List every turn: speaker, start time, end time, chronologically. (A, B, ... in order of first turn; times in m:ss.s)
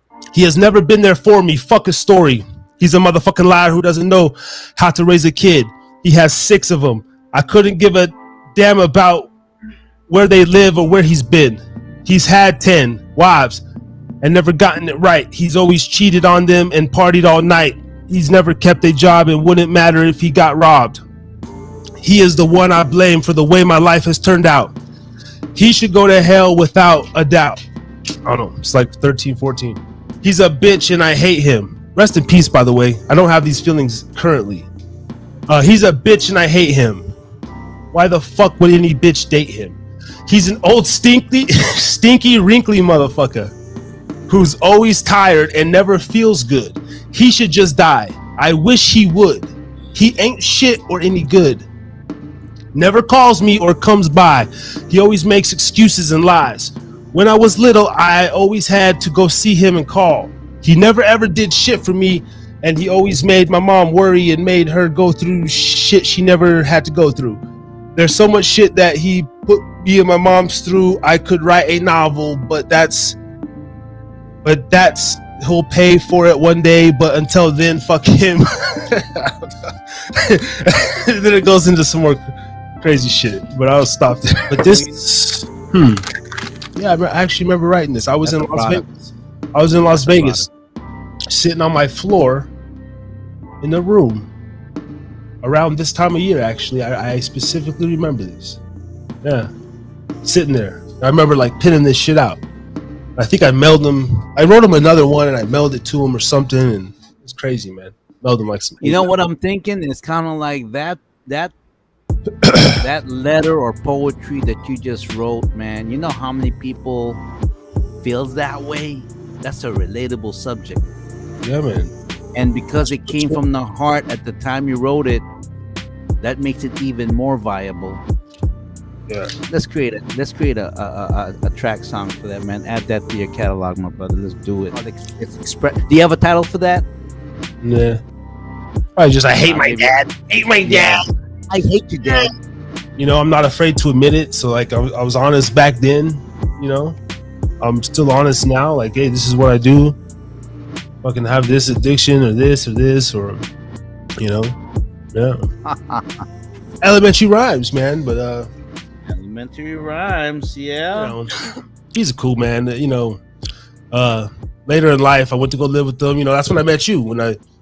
0:00.3-0:09.3 A
0:10.1-0:13.6 A
0:14.2-0:21.0 A
0:22.0-0:24.7 A
0:25.5-0:27.6 A
0:28.2-0:34.7 A
0:35.5-0:37.0 A
0:37.9-0:43.5 A
0:44.3-0:51.7 A
0:52.7-1:07.4 A
1:08.0-1:13.2 A
1:14.4-1:22.2 A
1:22.8-1:26.0 A
1:24.5-1:25.0 B
1:26.8-1:30.5 A
1:28.2-1:28.8 B
1:29.9-1:30.5 B
1:31.3-1:32.5 A
1:33.6-1:34.3 A
1:35.4-1:38.6 A
1:39.2-1:39.5 A
1:40.2-1:42.4 A
1:43.2-1:49.1 A
1:48.8-1:51.5 B
1:52.4-1:52.7 A
1:52.7-1:57.2 B
1:58.0-2:00.8 B
2:01.4-2:01.9 A
2:02.3-2:05.2 B
2:03.0-2:03.4 A
2:06.2-2:08.0 B
2:09.5-2:16.8 B
2:17.6-2:18.0 A
2:19.0-2:21.0 A
2:19.4-2:19.9 B
2:20.6-2:22.3 B
2:22.0-2:22.3 A
2:23.0-2:27.0 A
2:27.6-2:30.0 A
2:31.0-2:33.5 A
2:34.2-2:34.5 A
2:35.1-2:35.4 A
2:35.6-2:36.0 B
2:36.8-2:38.5 A
2:39.0-2:41.2 B
2:40.9-2:41.3 A
2:41.9-2:43.2 A
2:43.9-2:47.4 A